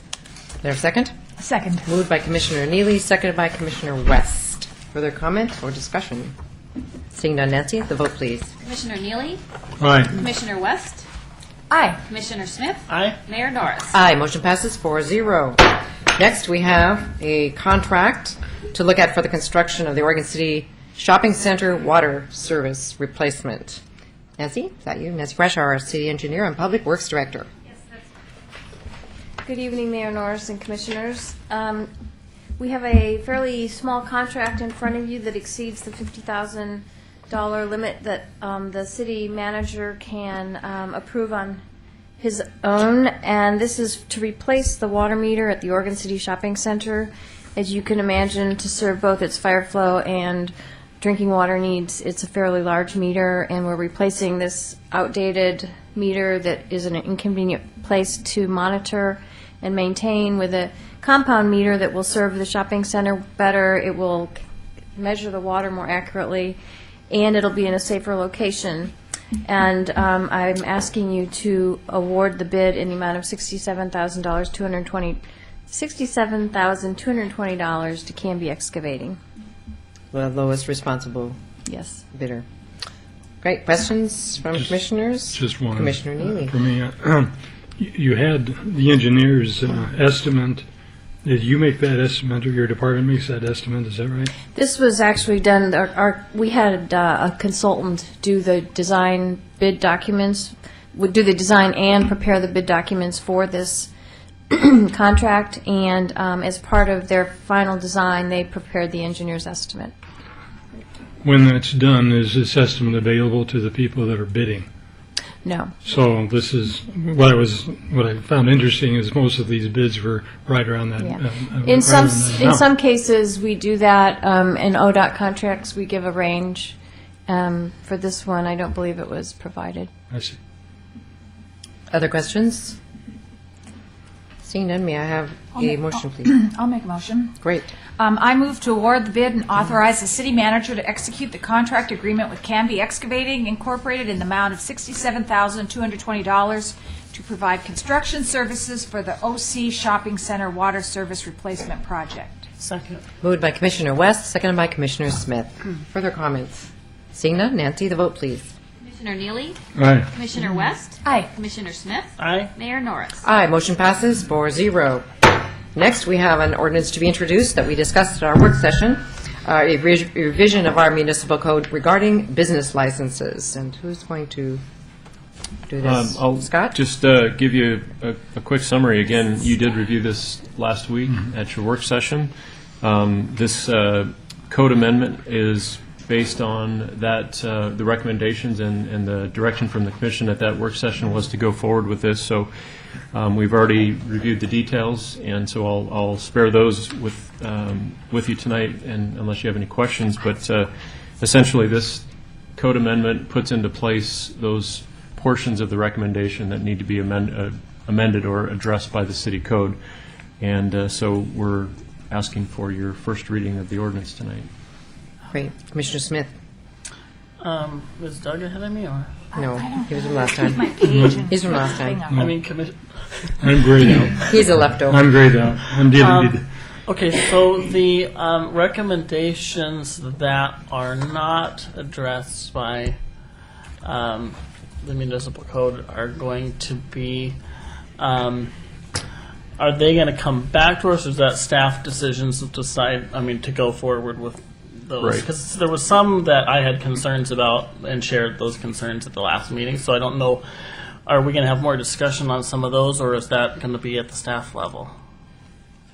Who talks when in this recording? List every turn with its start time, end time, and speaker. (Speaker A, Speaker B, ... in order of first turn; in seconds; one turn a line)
Speaker A: 0.6-1.1
Speaker B: 1.4-1.8
Speaker A: 1.8-6.3
Speaker A: 7.1-8.5
Speaker C: 8.6-9.4
Speaker D: 9.8-10.2
Speaker C: 10.1-11.0
Speaker B: 11.7-12.0
Speaker C: 12.1-13.9
Speaker E: 12.9-13.2
Speaker A: 13.9-23.8
Speaker A: 24.4-27.5
Speaker F: 29.4-31.9
Speaker F: 32.6-41.6
Speaker F: 42.2-64.4
Speaker F: 65.0-66.6
Speaker F: 67.1-68.9
Speaker F: 69.5-79.2
Speaker A: 80.1-81.4
Speaker F: 81.7-82.0
Speaker A: 82.1-82.5
Speaker A: 83.4-86.5
Speaker D: 85.3-90.7
Speaker D: 91.2-94.3
Speaker F: 94.5-103.9
Speaker F: 104.5-109.9
Speaker D: 111.2-114.7
Speaker F: 115.5-115.7
Speaker D: 115.8-122.6
Speaker F: 121.0-126.8
Speaker F: 127.3-129.9
Speaker D: 130.1-130.4
Speaker A: 131.9-132.8
Speaker A: 134.4-136.3
Speaker B: 135.6-137.4
Speaker A: 137.4-137.7
Speaker B: 138.0-152.5
Speaker E: 152.6-153.0
Speaker A: 153.2-158.5
Speaker C: 158.9-159.6
Speaker D: 159.8-160.1
Speaker C: 160.1-163.2
Speaker B: 160.5-161.3
Speaker E: 162.2-162.5
Speaker A: 163.2-165.1
Speaker A: 165.7-174.6
Speaker A: 175.7-176.8
Speaker G: 175.8-192.5
Speaker G: 193.1-209.8
Speaker G: 210.4-214.5
Speaker A: 215.3-216.3
Speaker E: 217.4-219.1
Speaker A: 219.3-220.7
Speaker B: 219.3-222.3
Speaker A: 221.2-222.1
Speaker E: 222.1-223.3
Speaker D: 223.4-226.4
Speaker A: 224.3-225.1
Speaker E: 225.9-233.0
Speaker E: 233.8-237.4
Speaker E: 238.0-238.5
Speaker E: 239.6-250.4
Speaker G: 245.0-245.3
Speaker E: 251.1-254.9